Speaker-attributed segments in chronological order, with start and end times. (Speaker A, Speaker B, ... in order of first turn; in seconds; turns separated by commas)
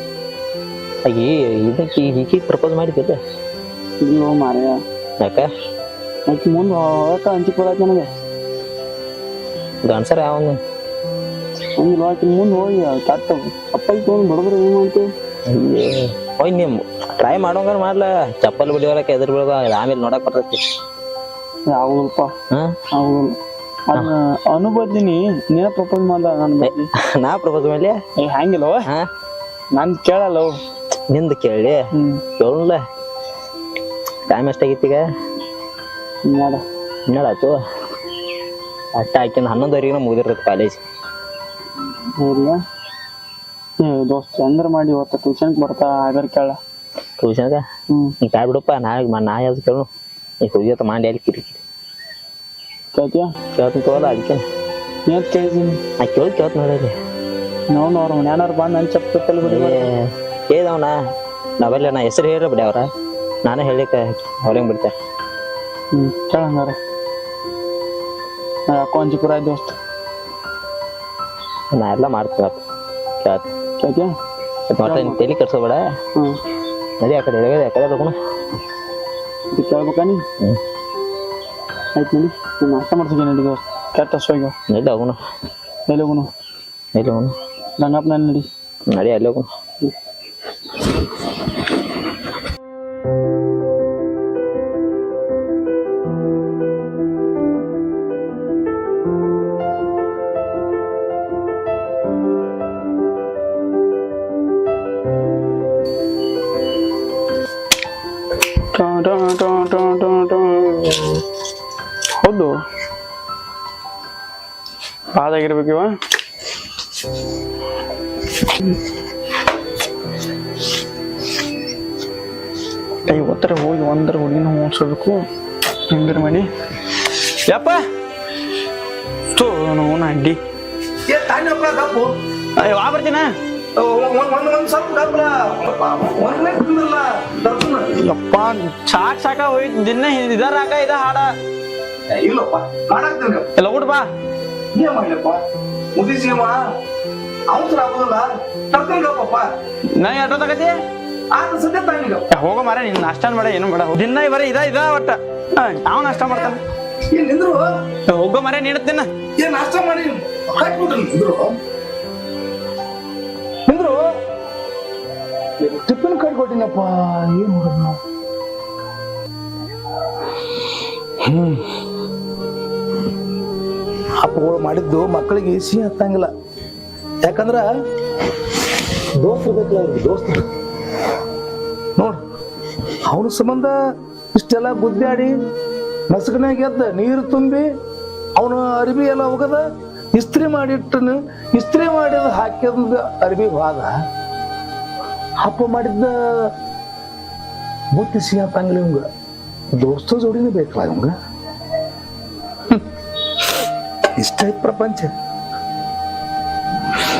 Speaker A: 1.0-3.2, Speaker B: 4.0-4.8, Speaker A: 5.2-5.5, Speaker B: 6.3-8.1, Speaker A: 9.8-10.6, Speaker B: 11.8-15.1, Speaker A: 15.5-20.6, Speaker B: 21.7-22.3, Speaker B: 22.9-23.3, Speaker B: 23.9-26.9, Speaker A: 26.6-28.0, Speaker B: 28.2-28.9, Speaker B: 29.7-30.5, Speaker A: 31.1-31.9, Speaker B: 31.9-32.2, Speaker A: 32.4-32.8, Speaker A: 34.3-35.0, Speaker B: 36.2-36.6, Speaker A: 37.1-37.6, Speaker A: 38.9-40.8, Speaker B: 42.2-42.6, Speaker B: 43.8-46.6, Speaker A: 47.2-47.6, Speaker A: 48.2-49.9, Speaker A: 50.4-51.6, Speaker B: 52.9-53.3, Speaker A: 53.5-54.4, Speaker B: 55.0-55.8, Speaker A: 56.0-56.9, Speaker B: 57.7-59.9, Speaker A: 59.4-60.9, Speaker A: 61.6-62.9, Speaker A: 63.4-64.9, Speaker B: 65.9-66.8, Speaker B: 68.7-69.8, Speaker A: 71.7-72.6, Speaker A: 73.2-73.5, Speaker B: 73.8-74.1, Speaker A: 74.7-75.8, Speaker B: 74.8-75.2, Speaker A: 77.0-78.1, Speaker B: 79.5-80.2, Speaker B: 81.9-84.5, Speaker A: 84.7-85.2, Speaker B: 85.9-86.3, Speaker A: 86.9-87.3, Speaker B: 87.8-88.5, Speaker A: 88.9-89.5, Speaker B: 108.7-111.2, Speaker B: 112.2-112.5, Speaker B: 115.1-115.9, Speaker B: 123.0-125.2, Speaker B: 125.9-126.5, Speaker B: 127.3-127.8, Speaker B: 129.3-130.4, Speaker C: 131.1-132.1, Speaker B: 132.6-133.3, Speaker C: 133.8-137.9, Speaker B: 138.0-141.3, Speaker C: 142.1-143.5, Speaker B: 143.6-144.0, Speaker C: 144.7-145.4, Speaker C: 145.9-146.6, Speaker C: 147.5-149.4, Speaker B: 150.0-150.7, Speaker C: 151.3-152.3, Speaker B: 152.3-156.6, Speaker C: 156.2-156.6, Speaker C: 157.1-157.7, Speaker B: 158.1-159.1, Speaker C: 159.4-161.5, Speaker C: 163.7-164.0, Speaker C: 165.6-168.0, Speaker C: 171.2-171.6, Speaker C: 174.2-176.3, Speaker C: 177.2-177.7, Speaker C: 179.2-180.4, Speaker C: 183.0-183.7, Speaker C: 184.3-185.4, Speaker C: 186.1-187.7, Speaker C: 188.3-189.6, Speaker C: 190.1-193.9, Speaker C: 195.4-196.5, Speaker C: 197.9-199.0, Speaker C: 199.8-201.1, Speaker C: 204.2-205.1